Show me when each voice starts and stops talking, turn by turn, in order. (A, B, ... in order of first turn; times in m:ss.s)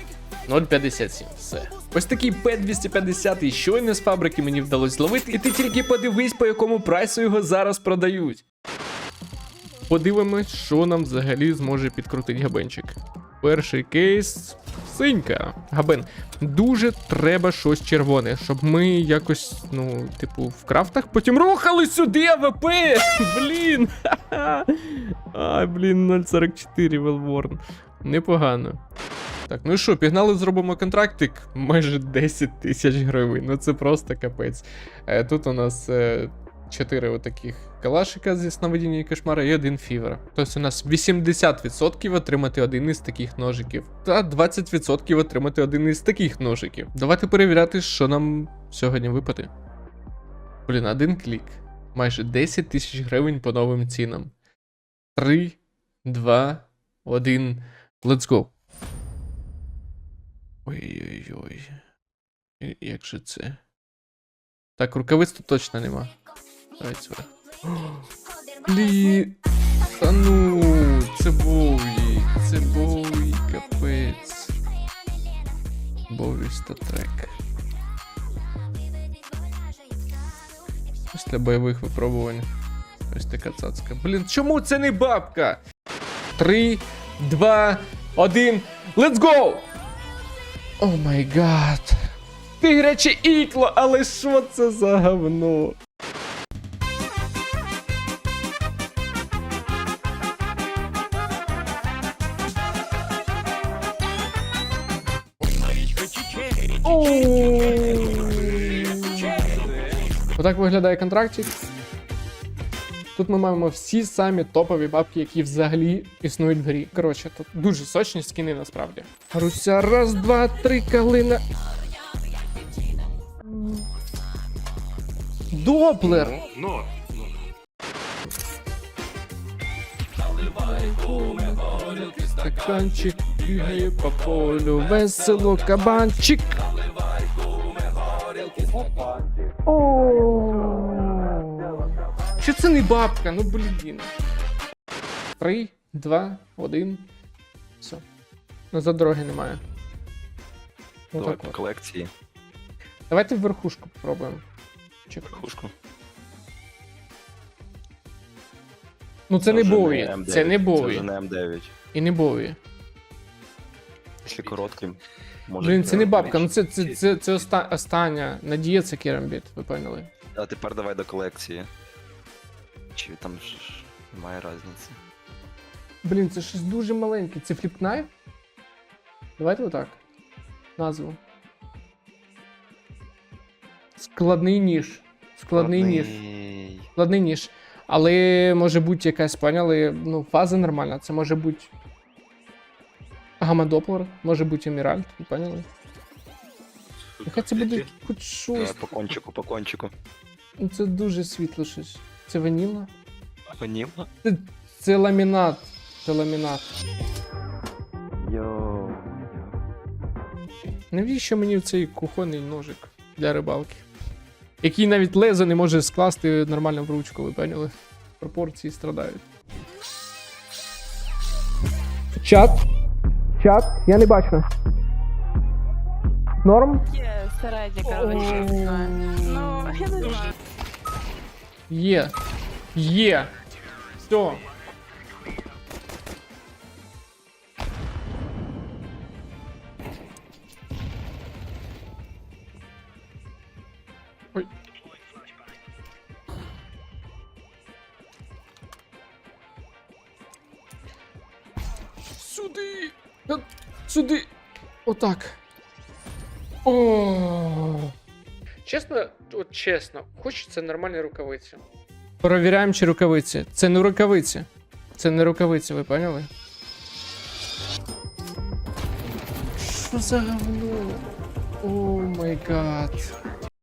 0:00.4-0:08.4 A
0:09.9-0:28.8 A
0:29.5-0:49.5 A
0:50.6-0:54.3 A
0:55.2-0:58.5 A
1:00.6-1:01.8 A
1:02.6-1:03.6 A
1:04.8-1:06.1 A
1:06.8-1:08.0 A
1:08.6-1:09.4 A
1:10.0-1:14.5 A
1:16.1-1:17.3 A
1:21.1-1:22.5 A
1:23.1-1:25.6 A
1:26.4-1:29.7 A
1:30.8-1:35.8 A
1:46.8-1:49.4 A
1:50.4-1:51.6 A
1:53.1-2:01.4 A
2:03.5-2:03.8 A
2:05.5-2:06.4 A
2:10.6-2:16.6 A
2:19.6-2:24.1 A
2:25.4-2:27.1 A
2:28.7-2:29.6 A
2:31.1-2:31.5 A
2:31.1-2:32.1 B
2:33.1-2:34.4 A
2:35.1-2:35.4 A
2:35.3-2:35.7 B
2:39.3-2:41.1 A
2:39.4-2:41.7 B
2:41.9-2:42.6 A
2:44.2-2:46.9 B
2:45.6-2:50.1 A
2:50.3-2:51.7 B
2:52.9-2:55.0 B
2:56.0-2:58.1 A
2:59.4-3:00.0 A
3:00.8-3:01.2 A
3:04.0-3:06.2 A
3:05.5-3:06.9 B
3:07.0-3:11.7 A
3:13.4-3:15.7 A
3:17.2-3:18.9 A
3:18.5-3:19.9 B
3:20.6-3:22.9 A
3:23.5-3:24.1 B
3:24.2-3:26.7 A
3:28.2-3:29.6 B
3:30.9-3:33.8 A
3:34.6-3:39.2 A
3:42.1-3:42.6 A
3:43.4-3:44.4 A
3:46.4-3:46.9 A
3:46.9-3:50.4 C
3:47.8-3:49.8 A
3:51.7-3:52.1 A
3:52.7-3:53.3 A
3:54.0-3:54.4 A
4:12.2-4:14.3 A
4:14.8-4:15.4 A
4:16.6-4:17.9 A
4:18.6-4:21.6 A
4:22.2-4:26.3 A
4:29.6-4:31.0 A
4:31.6-4:33.1 A